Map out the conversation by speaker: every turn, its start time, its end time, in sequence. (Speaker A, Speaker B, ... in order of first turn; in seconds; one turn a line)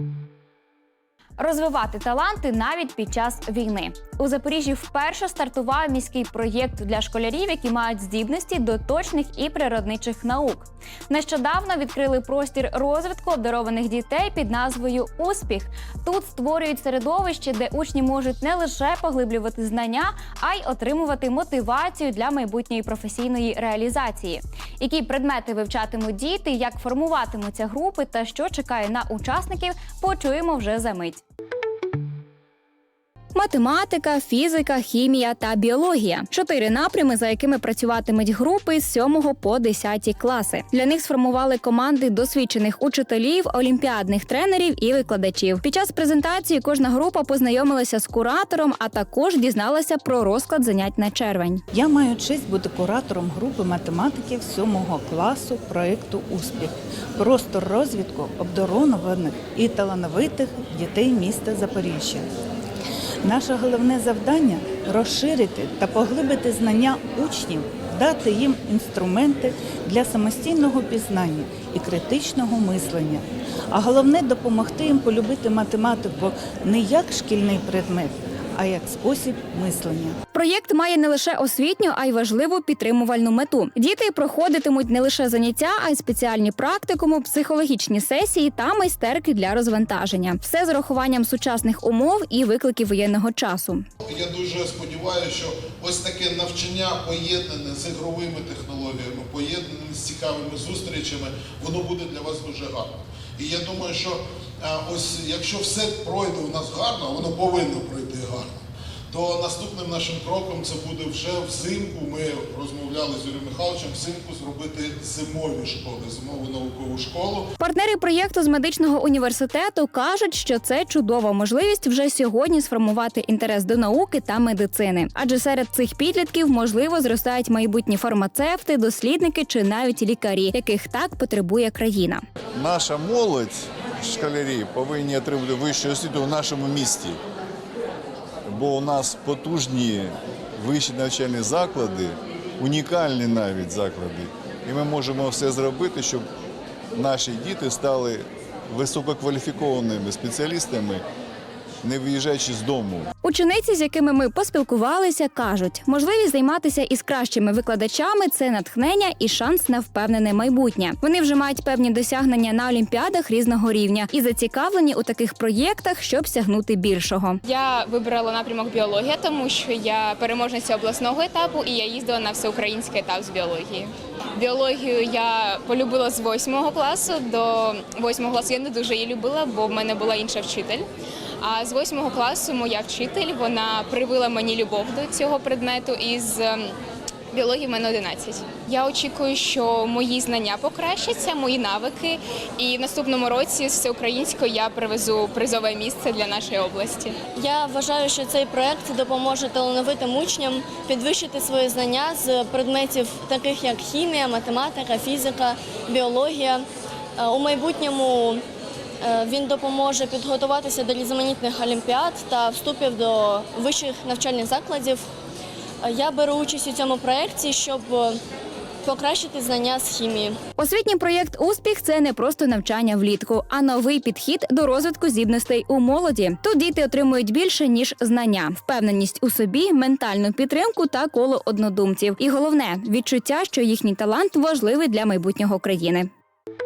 Speaker A: 1.4-31.2
Speaker A: 33.3-51.6
Speaker B: 51.7-62.3
Speaker B: 63.2-80.2
Speaker A: 80.3-93.8
Speaker C: 94.0-108.5
Speaker C: 109.1-117.5
Speaker A: 117.6-132.2
Speaker D: 132.6-137.2
Speaker D: 138.5-146.2
Speaker D: 146.9-151.0
Speaker D: 151.8-153.1
Speaker A: 153.2-167.4
Speaker E: 167.4-180.9
Speaker E: 181.4-186.7
Speaker E: 187.3-197.1
Speaker F: 197.3-206.6
Speaker F: 207.2-208.4
Speaker F: 209.0-215.0
Speaker F: 215.8-218.2
Speaker F: 218.8-220.4
Speaker A: 220.6-236.1